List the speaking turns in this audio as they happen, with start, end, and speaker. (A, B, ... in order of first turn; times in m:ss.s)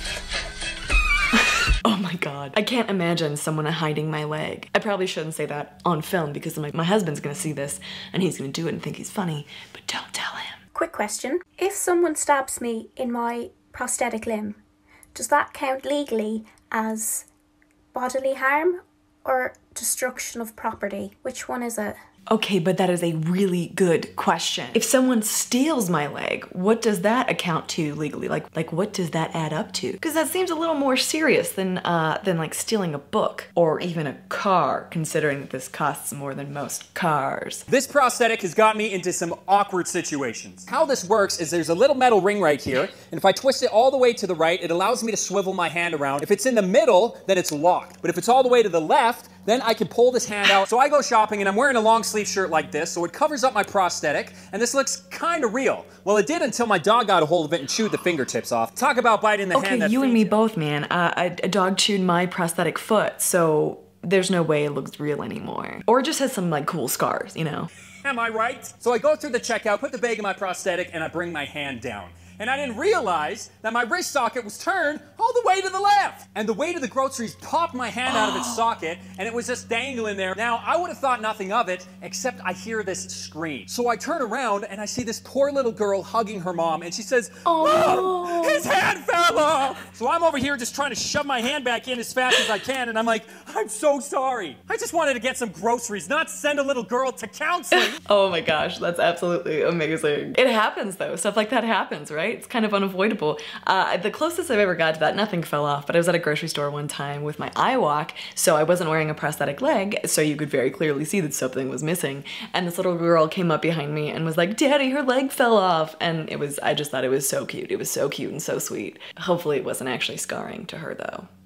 0:01.8-0:10.6 A
0:10.8-0:14.6 B
0:15.2-0:17.3 B
0:17.9-0:22.0 B
0:22.3-0:37.6 A
0:37.7-1:00.4 C
0:59.5-1:07.7 A
1:08.0-1:38.0 C
1:18.1-1:18.6 A
1:27.4-1:28.7 A
1:37.7-2:01.3 A